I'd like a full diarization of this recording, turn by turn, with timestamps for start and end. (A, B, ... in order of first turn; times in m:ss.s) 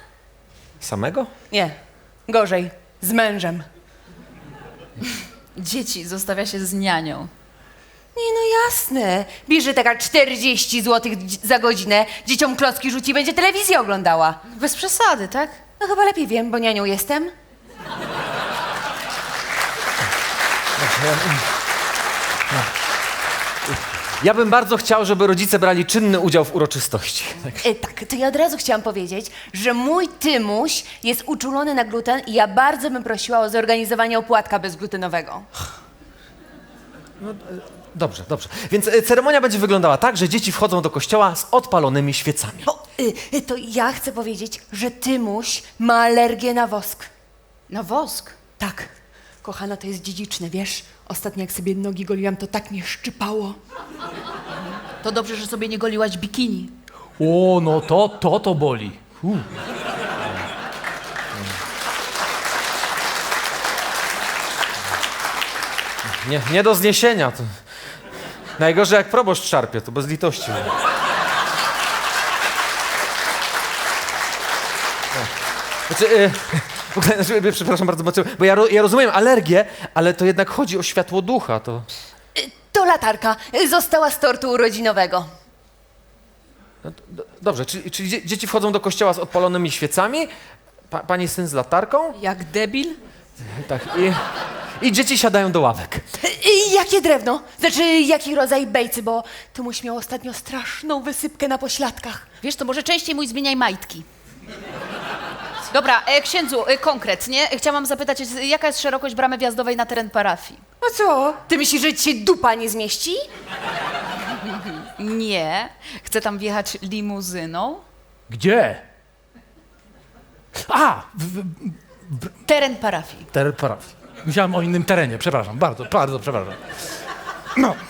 0:00.8-0:01.3 A
0:02.3-0:03.6 B
0:05.5-0:07.3 C
0:08.1-0:14.4 B
0:14.5-0:15.6 C
0:15.8-0:17.3 B
0:20.8-0:21.4 A
0:23.7-0:27.6 A
0:27.6-0:35.5 B
0:37.2-0:42.6 A
0:42.6-0:47.1 B
0:47.7-0:48.4 C
0:48.6-0:48.9 B
0:49.4-0:53.6 B
0:55.0-0:56.7 C
0:57.2-0:59.5 D
1:06.2-1:07.6 A
1:08.6-1:10.7 A
1:15.9-1:21.9 A
1:22.3-1:25.3 B
1:26.8-1:30.3 A
1:30.9-1:32.2 A
1:32.1-1:33.0 C
1:33.4-1:34.2 A
1:34.8-1:36.0 A
1:36.2-1:42.2 B
1:42.4-1:44.0 C
1:45.7-1:50.6 C
1:50.8-1:53.2 B
1:54.4-1:57.8 C
1:58.3-1:58.8 D
2:00.6-2:02.3 D
2:02.4-2:03.3 C
2:03.3-2:06.6 D